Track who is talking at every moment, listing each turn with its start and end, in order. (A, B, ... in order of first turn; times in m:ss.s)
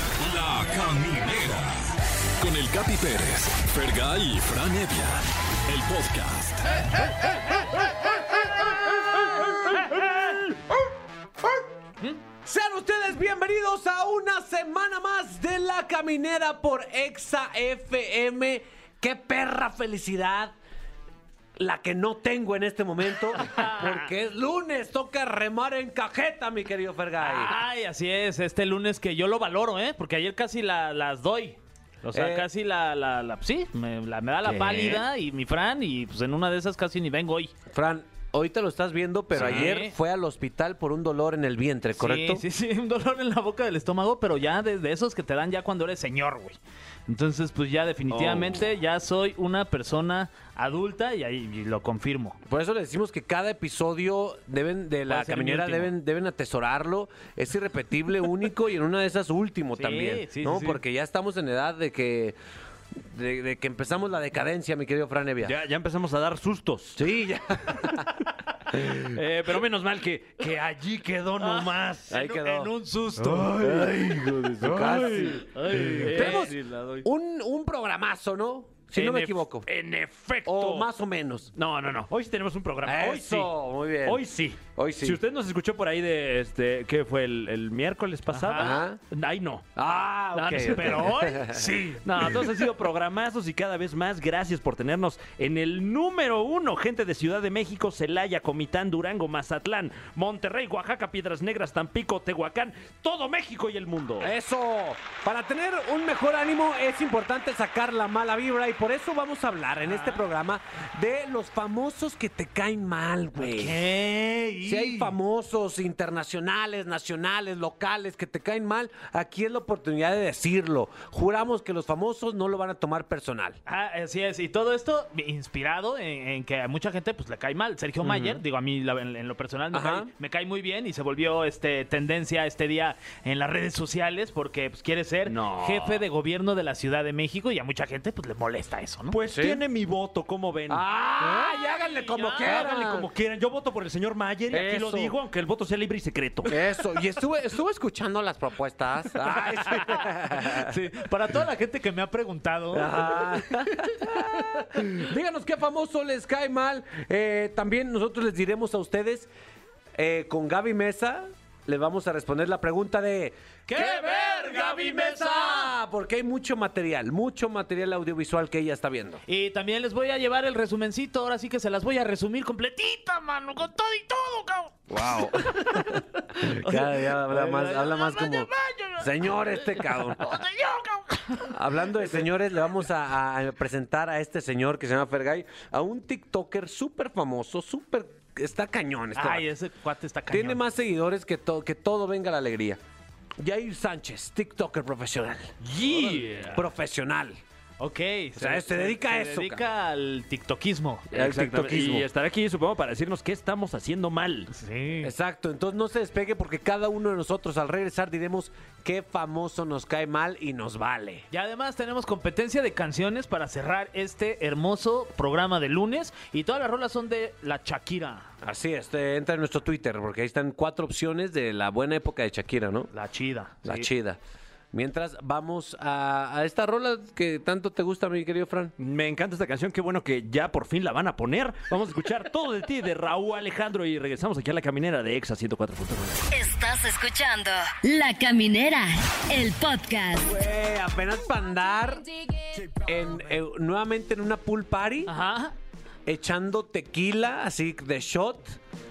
0:00.2-0:01.8 A
0:02.4-0:07.2 A
0:08.6-0:10.6 B
0:12.4-0:20.5 B
0:21.6-0:27.5 B
0:23.4-0:24.1 C
0:27.2-0:37.5 C
0:32.1-0:32.5 B
0:34.4-0:35.0 D
0:37.7-0:42.4 B
0:39.3-0:39.7 D
0:39.4-0:39.9 C
0:42.0-0:52.4 C
0:48.1-0:48.7 D
0:52.4-1:02.4 B
0:55.1-0:55.9 C
0:59.8-1:00.8 C
1:03.0-1:05.5 B
1:05.4-1:07.0 D
1:07.0-1:08.0 B
1:08.7-1:09.0 B
1:08.7-1:12.1 D
1:11.4-1:13.6 C
1:12.1-1:12.7 B
1:13.2-1:17.0 D
1:13.6-1:15.5 B
1:15.4-1:16.9 C
1:16.1-1:19.7 B
1:18.9-1:20.9 D
1:20.4-1:21.5 B
1:21.5-1:29.7 D
1:22.8-1:24.2 B
1:24.8-1:25.2 B
1:28.3-1:28.8 C
1:28.6-1:29.0 B
1:29.8-1:31.8 B
1:30.3-1:32.3 C
1:30.5-1:31.0 D
1:32.0-1:44.3 D
1:44.2-1:53.8 B
1:49.9-1:50.2 C
1:53.4-1:55.1 C
1:54.6-2:03.6 B
2:03.6-2:19.2 C
2:08.0-2:08.4 D
2:09.7-2:10.1 B
2:15.2-2:16.0 D
2:19.1-2:20.8 D
2:19.3-2:19.6 B
2:20.7-2:23.1 B
2:21.4-2:22.5 C
2:22.4-2:26.5 D
2:24.5-2:25.1 B
2:26.5-2:30.8 B
2:29.4-2:33.9 C
2:32.7-2:39.3 B
2:40.0-2:49.2 B
2:43.7-2:45.7 C
2:49.3-3:01.6 C
2:54.9-3:00.4 B
3:01.5-3:09.5 B
3:09.1-3:10.6 C
3:10.3-3:12.8 B
3:13.4-3:17.4 B
3:15.6-3:16.6 D
3:17.8-3:21.0 C
3:18.4-3:19.6 B
3:21.1-3:22.1 B
3:21.1-3:24.5 D
3:24.5-3:25.1 C
3:25.0-3:31.2 B
3:31.3-3:38.3 C
3:38.4-3:42.9 B
3:42.9-3:43.9 C
3:43.6-3:44.2 B
3:44.7-3:48.7 B
3:48.8-3:56.2 D
3:56.3-4:00.3 E
4:00.2-4:02.0 B
4:02.7-4:05.1 B
4:05.0-4:05.5 C
4:06.0-4:08.6 B